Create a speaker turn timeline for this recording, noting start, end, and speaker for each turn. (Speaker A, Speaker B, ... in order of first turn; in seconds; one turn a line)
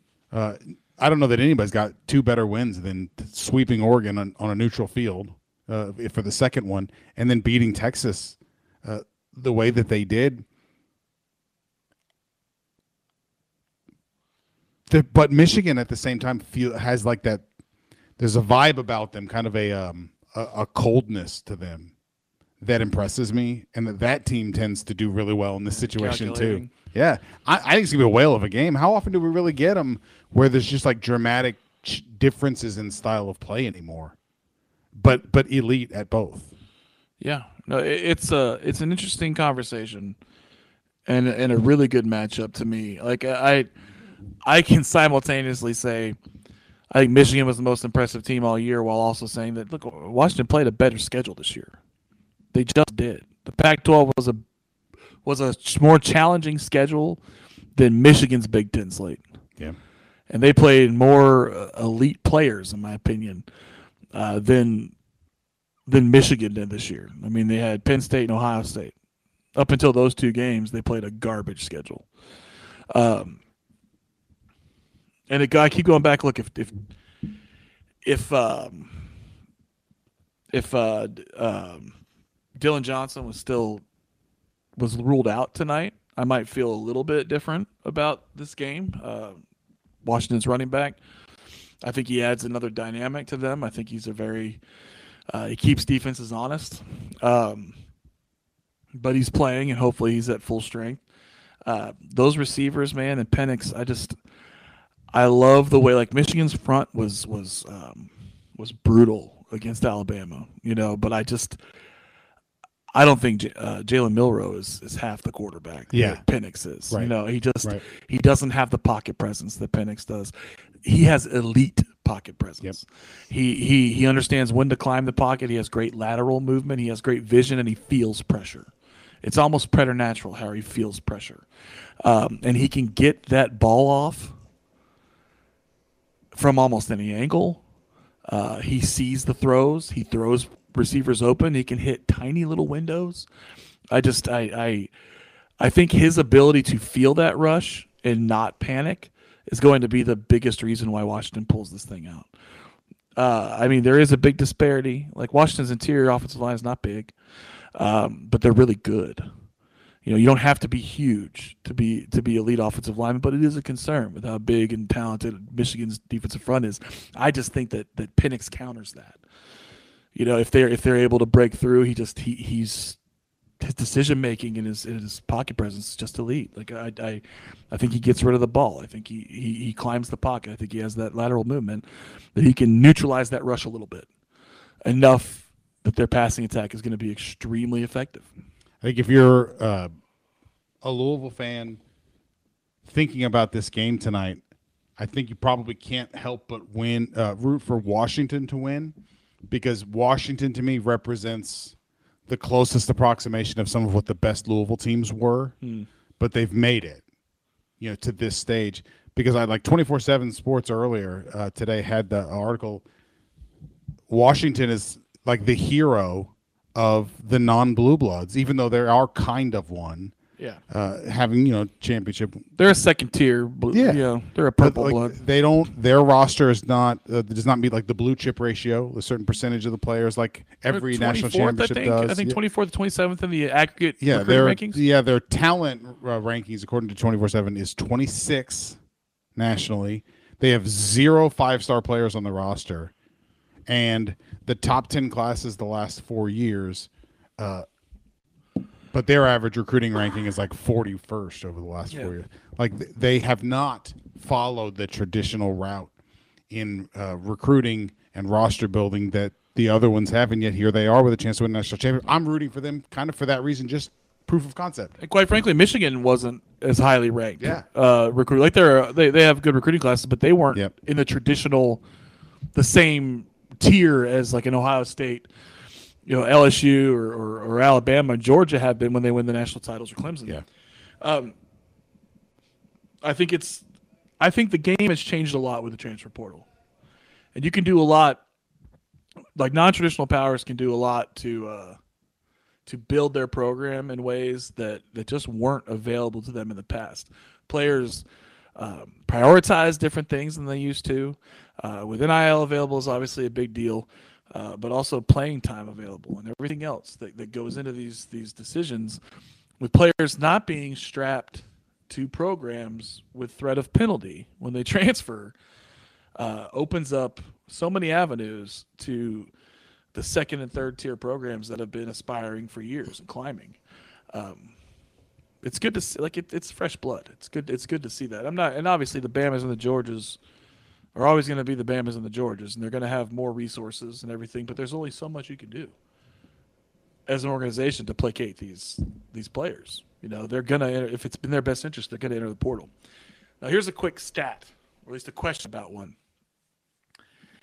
Speaker A: 0.3-10.4
Speaker A: 14.9-17.5
Speaker A: 18.2-21.9
Speaker A: 22.6-34.1
Speaker B: 25.7-26.7
Speaker A: 35.0-36.5
Speaker B: 37.2-40.2
Speaker B: 41.1-43.7
Speaker B: 44.4-46.2
Speaker B: 46.9-51.8
Speaker B: 52.5-54.4
Speaker B: 55.2-57.2
Speaker B: 57.8-59.2
Speaker B: 60.3-63.5
Speaker B: 64.1-64.9
Speaker B: 65.9-68.9
Speaker B: 69.5-72.1
Speaker B: 72.9-73.4
Speaker B: 75.3-76.9
Speaker B: 78.0-79.1
Speaker B: 80.5-82.0
Speaker B: 82.6-83.8
Speaker B: 84.8-89.4
Speaker B: 90.0-91.0
Speaker B: 91.8-94.6
Speaker B: 95.3-97.8
Speaker B: 98.9-101.0
Speaker B: 101.7-104.2
Speaker B: 105.1-111.6
Speaker B: 113.0-128.7
Speaker A: 115.9-116.2
Speaker B: 129.2-131.4
Speaker B: 132.0-134.3
Speaker B: 136.3-137.6
Speaker B: 138.3-143.3
Speaker B: 143.9-144.9
Speaker B: 145.6-152.3
Speaker B: 153.2-157.1
Speaker B: 157.8-159.3
Speaker B: 160.1-169.2
Speaker B: 170.2-173.0
Speaker B: 173.6-184.1
Speaker B: 184.8-188.3
Speaker A: 188.8-189.9
Speaker A: 190.8-191.8
Speaker A: 192.8-194.4
Speaker A: 195.0-199.0
Speaker A: 199.5-201.8
Speaker A: 202.3-205.6
Speaker B: 205.6-205.9
Speaker A: 206.2-207.0
Speaker A: 207.8-212.8
Speaker A: 214.1-220.2
Speaker A: 220.7-222.5
Speaker B: 222.6-225.2
Speaker A: 223.7-232.4
Speaker B: 230.7-234.8
Speaker A: 234.0-238.8
Speaker A: 239.3-242.9
Speaker A: 243.7-247.7
Speaker A: 248.9-255.9
Speaker A: 256.5-264.9
Speaker B: 265.0-271.8
Speaker A: 267.4-267.6
Speaker B: 272.6-275.3
Speaker B: 276.1-280.4
Speaker B: 281.0-281.4
Speaker B: 283.0-283.6
Speaker B: 284.2-286.5
Speaker B: 287.4-288.2
Speaker B: 289.4-291.8
Speaker B: 292.7-298.0
Speaker B: 298.6-309.0
Speaker B: 309.6-315.4
Speaker B: 316.2-319.3
Speaker B: 319.9-323.6
Speaker B: 324.1-324.5
Speaker B: 325.4-330.2
Speaker B: 330.9-335.7
Speaker B: 337.1-342.7
Speaker B: 343.4-345.9